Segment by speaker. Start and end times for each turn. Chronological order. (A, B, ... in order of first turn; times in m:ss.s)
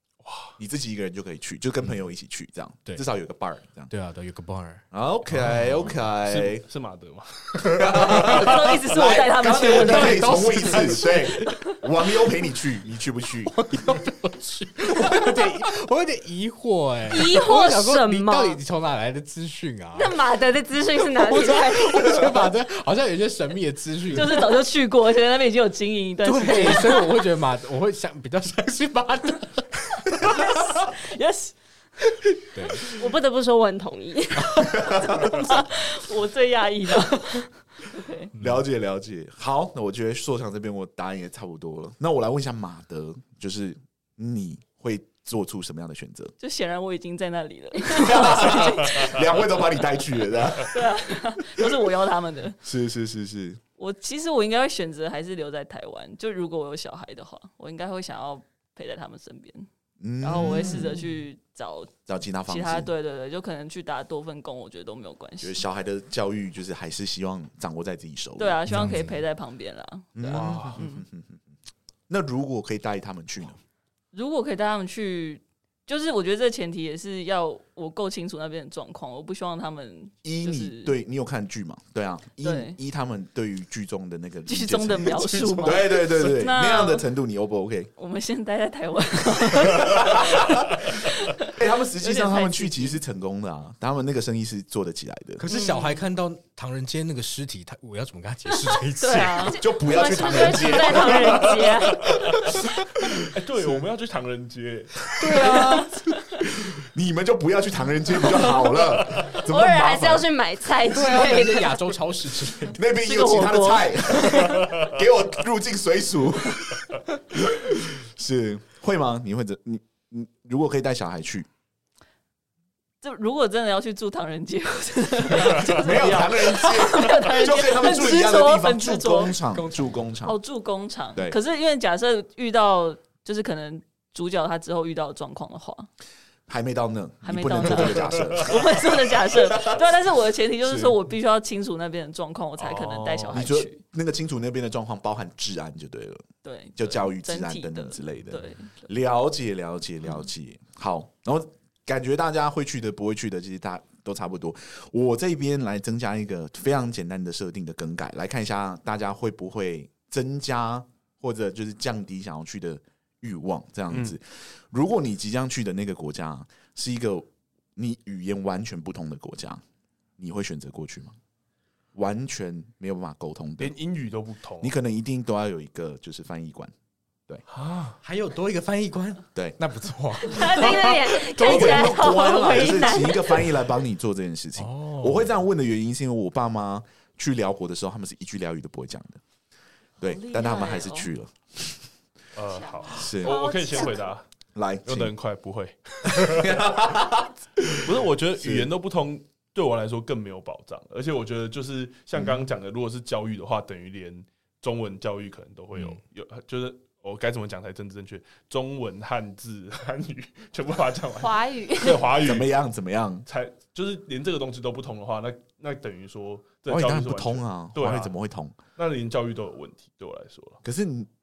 0:00.2-0:00.5 A
0:00.6-0:03.9 B
0:03.9-0:05.8 C
0:04.9-0:06.6 B
0:06.2-0:08.7 A
0:07.6-0:13.6 B
0:08.3-0:10.9 D
0:09.1-0:09.6 E
0:09.6-0:11.5 C
0:13.5-0:20.2 C
0:17.1-0:18.6 E
0:20.0-0:22.4 E
0:21.0-0:24.5 C
0:24.1-0:27.3 D
0:26.2-0:30.6 C
0:30.3-0:31.6 D
0:32.5-0:32.9 C
0:32.9-0:35.4 E
0:34.8-0:35.4 B
0:35.4-0:38.3 D
0:38.4-0:46.3 B
0:46.4-0:49.6 D
0:47.9-0:51.7 B
0:50.6-0:52.6 D
0:52.6-0:53.6 B
0:53.8-0:59.7 D
1:00.0-1:01.0 B
1:00.2-1:05.6 D
1:02.1-1:02.9 B
1:05.4-1:09.1 B
1:08.4-1:11.1 D
1:08.7-1:09.1 C
1:10.2-1:11.4 B
1:10.3-1:10.8 A
1:12.1-1:13.6 B
1:14.1-1:20.9 D
1:20.2-1:27.9 B
1:22.4-1:22.8 D
1:24.5-1:27.1 D
1:28.0-1:30.5 D
1:29.7-1:30.7 B
1:31.3-1:33.0 D
1:31.5-1:35.4 B
1:35.4-1:39.6 C
1:35.5-1:36.1 D
1:38.6-1:41.6 D
1:39.6-1:42.3 B
1:39.7-1:42.3 E
1:43.3-1:45.1 A
1:43.6-1:43.8 B
1:45.2-1:46.0 C
1:45.4-1:46.1 D
1:46.6-1:50.3 B
1:49.4-1:52.0 E
1:50.9-1:52.8 C
1:52.7-2:01.5 B
1:53.0-1:54.1 D
2:03.0-2:09.4 D
2:05.6-2:10.4 B
2:09.5-2:09.9 C
2:10.2-2:15.9 D
2:16.5-2:19.8 B
2:17.2-2:23.8 D
2:18.0-2:18.4 A
2:20.6-2:21.0 B
2:22.6-2:23.5 A
2:23.3-2:49.6 B
2:26.4-2:28.9 D
2:43.9-2:44.2 A
2:50.2-2:51.2 B
2:51.9-2:53.8 B
2:53.6-2:54.7 A
2:54.6-2:56.7 B
2:57.5-2:58.0 A
2:58.0-3:01.4 C
3:00.2-3:03.6 E
3:01.3-3:09.2 B
3:04.6-3:05.3 C
3:10.0-3:11.8 B
3:10.0-3:11.1 D
3:12.4-3:14.2 A
3:12.6-3:12.9 D
3:12.9-3:13.4 B
3:13.2-3:14.1 E
3:14.6-3:15.1 B
3:14.9-3:16.6 A
3:16.0-3:18.7 B
3:17.8-3:32.5 A
3:22.2-3:22.5 B
3:31.2-3:32.0 E
3:32.2-3:33.3 B
3:33.3-3:38.2 A
3:36.7-3:38.6 B
3:38.8-3:40.6 A
3:40.6-3:41.1 B